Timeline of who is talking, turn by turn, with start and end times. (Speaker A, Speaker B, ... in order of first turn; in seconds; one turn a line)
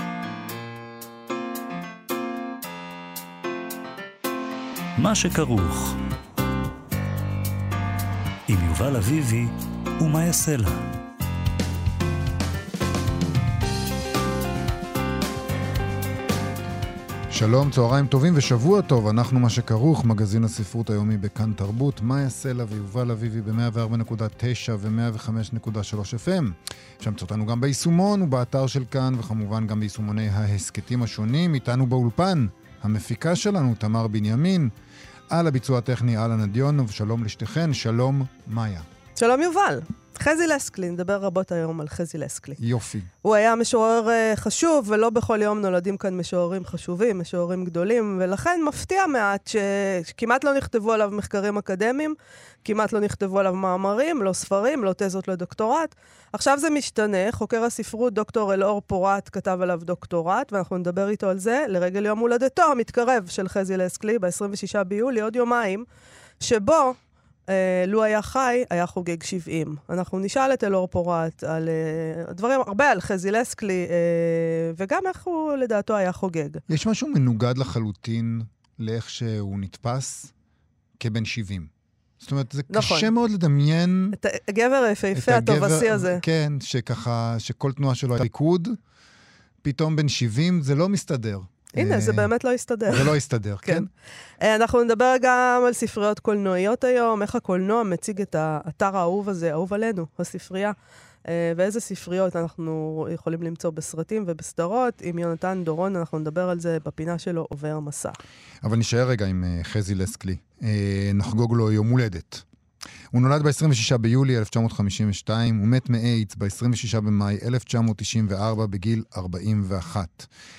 Speaker A: 5.0-6.0
Speaker A: 8.5-10.8
Speaker B: 17.3-34.7
Speaker B: 35.3-38.9
Speaker C: 39.2-42.6
Speaker B: 42.6-43.1
Speaker C: 43.2-65.8
Speaker C: 66.4-67.0
Speaker C: 67.5-76.6
Speaker B: 76.7-80.3
Speaker B: 81.0-84.2
Speaker C: 82.7-83.1
Speaker C: 84.1-86.2
Speaker B: 85.1-88.8
Speaker B: 89.6-92.3
Speaker C: 91.8-93.1
Speaker B: 92.9-93.9
Speaker C: 94.4-100.7
Speaker C: 101.2-108.2
Speaker B: 108.6-112.4
Speaker B: 113.1-120.3